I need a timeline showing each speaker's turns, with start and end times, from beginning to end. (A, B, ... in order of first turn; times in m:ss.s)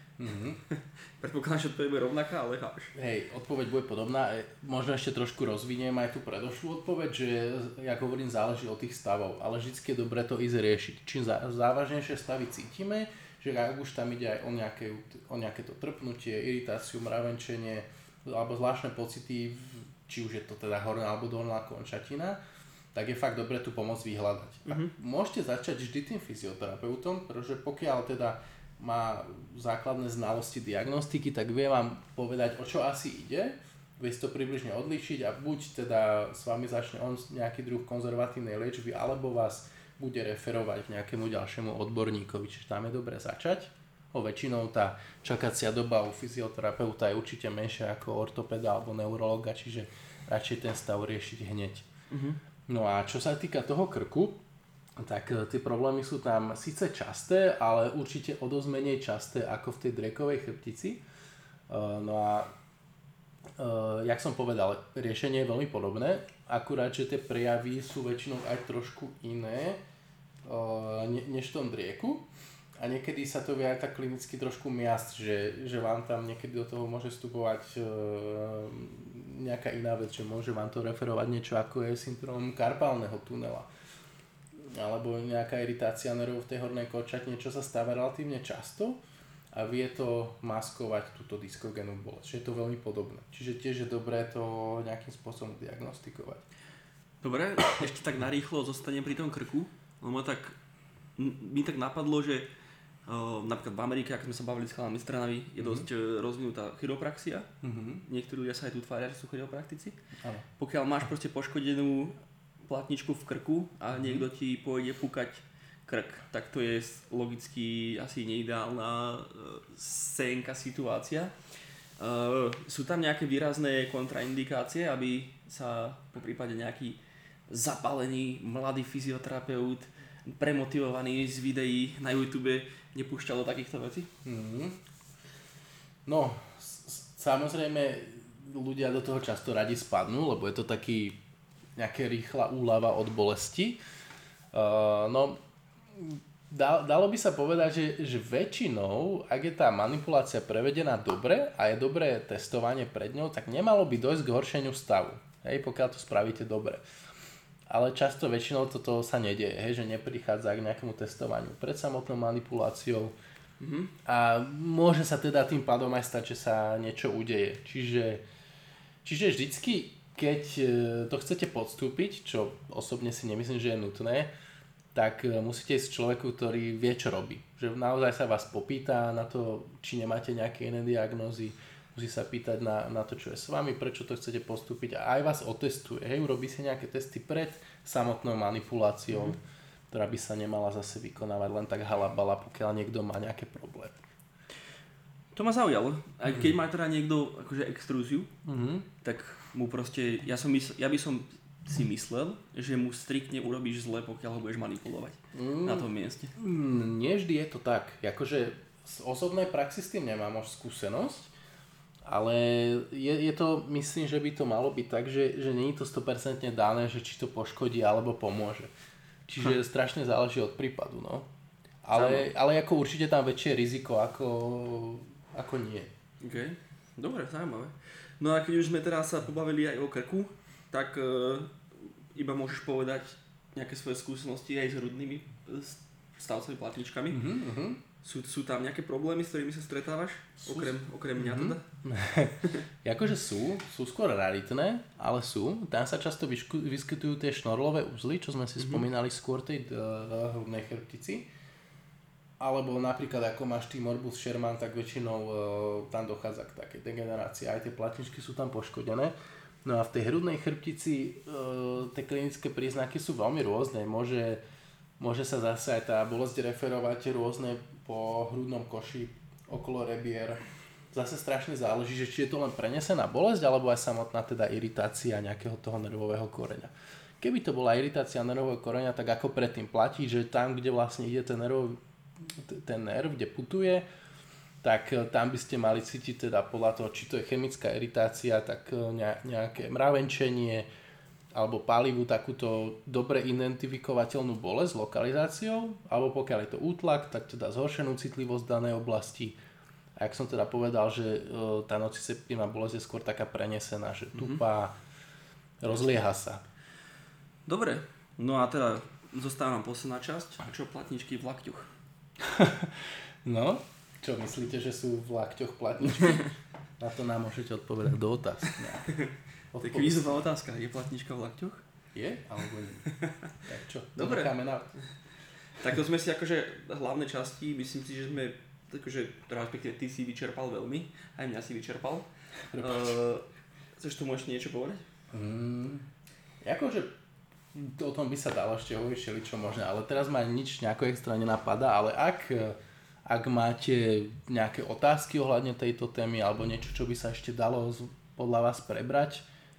0:00.2-0:00.6 A
0:00.7-0:02.9 B
0:02.9-0:22.4 A
0:22.9-0:51.9 A
0:24.6-0:24.9 B
0:52.1-0:52.4 B
0:52.7-0:54.4 A
0:55.0-1:01.0 A
1:01.7-1:02.5 A
1:03.6-1:09.8 A
1:10.4-1:12.2 A
1:12.8-1:23.7 A
1:24.7-1:29.0 A
1:29.5-1:36.4 A
1:37.2-1:40.6 B
1:41.2-1:42.5 B
1:43.0-1:47.5 B
1:45.6-1:45.9 A
1:47.6-1:48.0 A
1:48.0-1:50.0 B
1:50.2-1:50.4 A
1:50.6-2:01.3 B
1:54.0-1:54.2 A
2:02.0-2:14.1 B
2:14.2-2:14.8 A
2:16.0-2:21.2 A
2:21.8-2:23.8 A
2:24.5-2:25.4 A
2:25.9-2:36.8 A
2:37.7-2:43.1 A
2:43.6-2:43.9 B
2:44.0-2:48.2 A
2:49.0-2:54.3 A
2:54.9-3:09.4 A
3:09.9-3:14.0 A
3:15.3-3:18.3 B
3:18.4-3:18.8 A
3:19.0-3:26.3 B
3:25.3-3:31.3 A
3:32.0-3:38.7 A
3:39.3-3:41.3 A
3:41.8-3:45.9 A
3:41.9-3:42.3 B
3:46.2-3:57.2 B
3:57.1-3:57.8 A
3:58.0-4:01.6 B
4:00.4-4:11.3 A
4:12.4-4:19.1 A
4:19.6-4:24.4 A
4:25.0-4:43.8 A
4:44.6-4:50.7 A
4:51.3-4:59.4 A
5:00.0-5:04.7 A
5:04.1-5:04.4 B
5:05.6-5:06.4 A
5:07.4-5:11.7 B
5:12.2-5:18.9 A
5:18.8-5:21.6 B
5:19.5-5:20.2 A
5:21.9-5:22.9 A
5:22.9-5:23.3 B
5:23.4-5:24.7 A
5:24.0-5:24.3 B
5:25.6-5:33.2 B
5:32.5-5:33.0 A
5:33.8-5:34.8 B
5:35.1-5:35.8 A
5:36.4-5:36.9 A
5:37.5-5:49.2 A